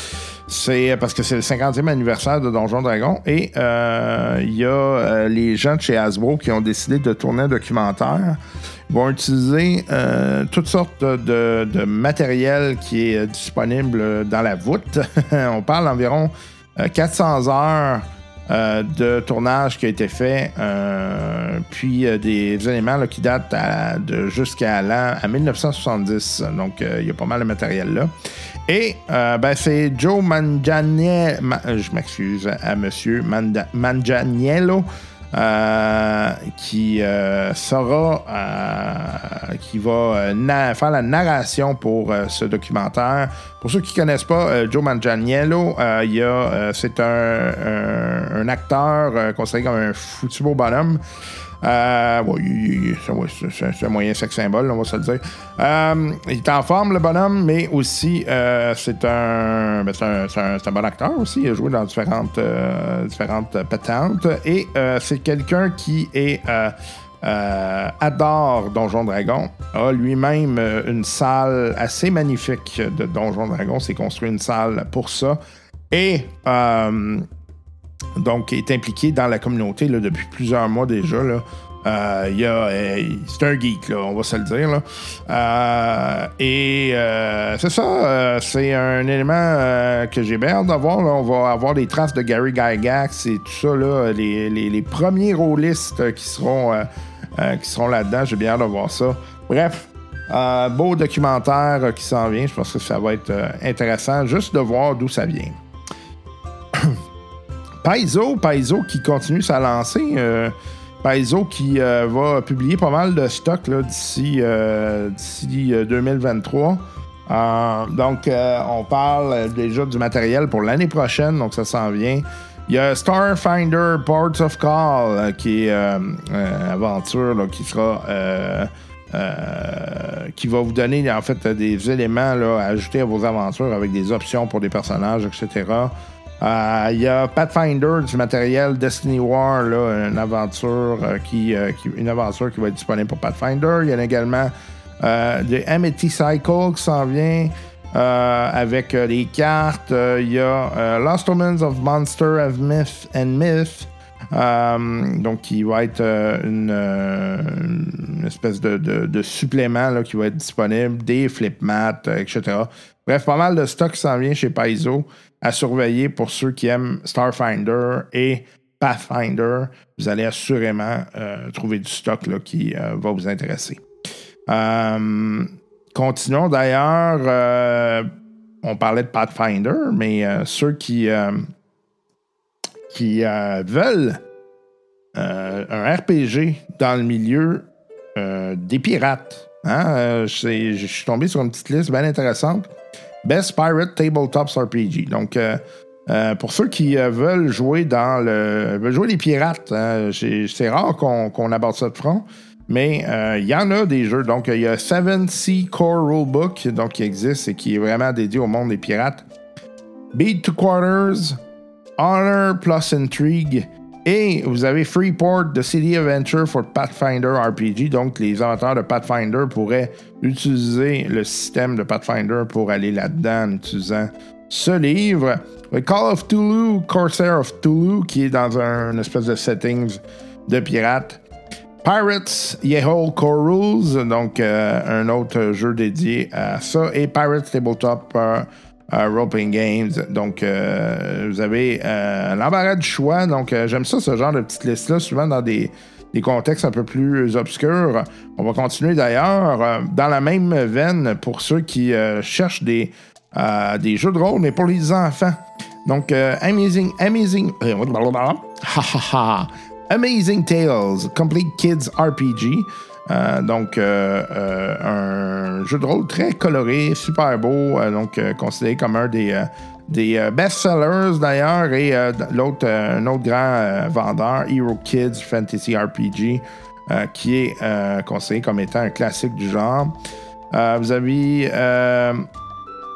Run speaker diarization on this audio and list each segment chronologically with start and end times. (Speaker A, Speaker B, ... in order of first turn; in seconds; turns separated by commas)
Speaker A: 0.5-28.1, Speaker A: 28.7-51.0, Speaker A: 51.6-75.4, Speaker A: 75.9-77.2, Speaker A: 78.2-105.6, Speaker A: 107.8-173.8, Speaker A: 174.5-178.1, Speaker A: 178.6-181.5, Speaker A: 182.9-184.2, Speaker A: 185.1-192.7, Speaker A: 193.2-209.2, Speaker A: 210.1-211.4, Speaker A: 212.0-231.2, Speaker A: 231.8-279.9, Speaker A: 280.5-282.3